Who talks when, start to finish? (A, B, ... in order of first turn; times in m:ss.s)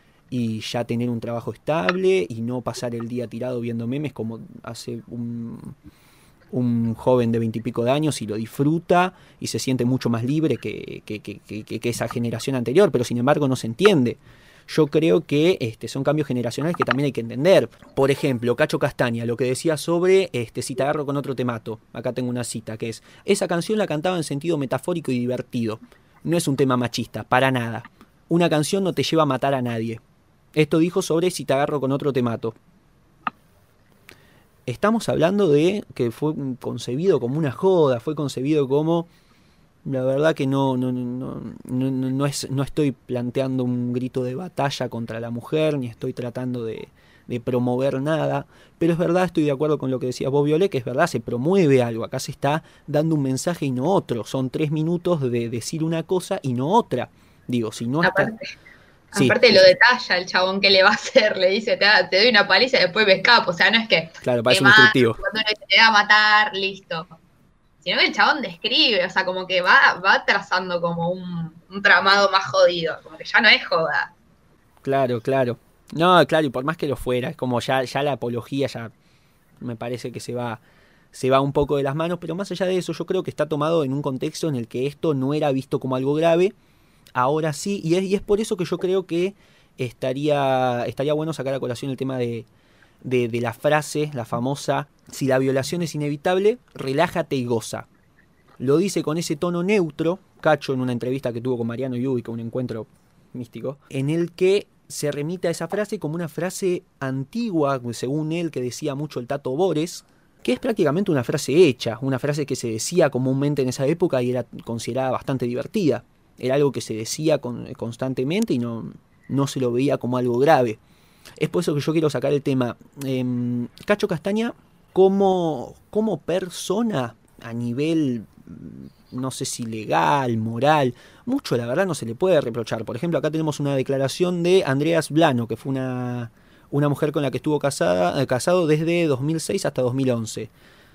0:00.3-0:05.8 A
0:06.5-0:30.0 A
0:30.5-0:32.6 A
0:34.7-0:39.1 A
0:39.8-0:58.3 A
0:58.0-0:58.5 B
0:59.1-0:59.6 A
0:59.1-1:07.1 B
1:04.2-1:05.2 A
1:07.8-1:14.1 B
1:14.8-1:18.9 A
1:19.6-1:20.6 A
1:21.1-1:26.5 A
1:27.1-1:32.5 A
1:33.0-1:37.9 A
1:38.6-2:00.8 A
2:01.4-2:20.5 A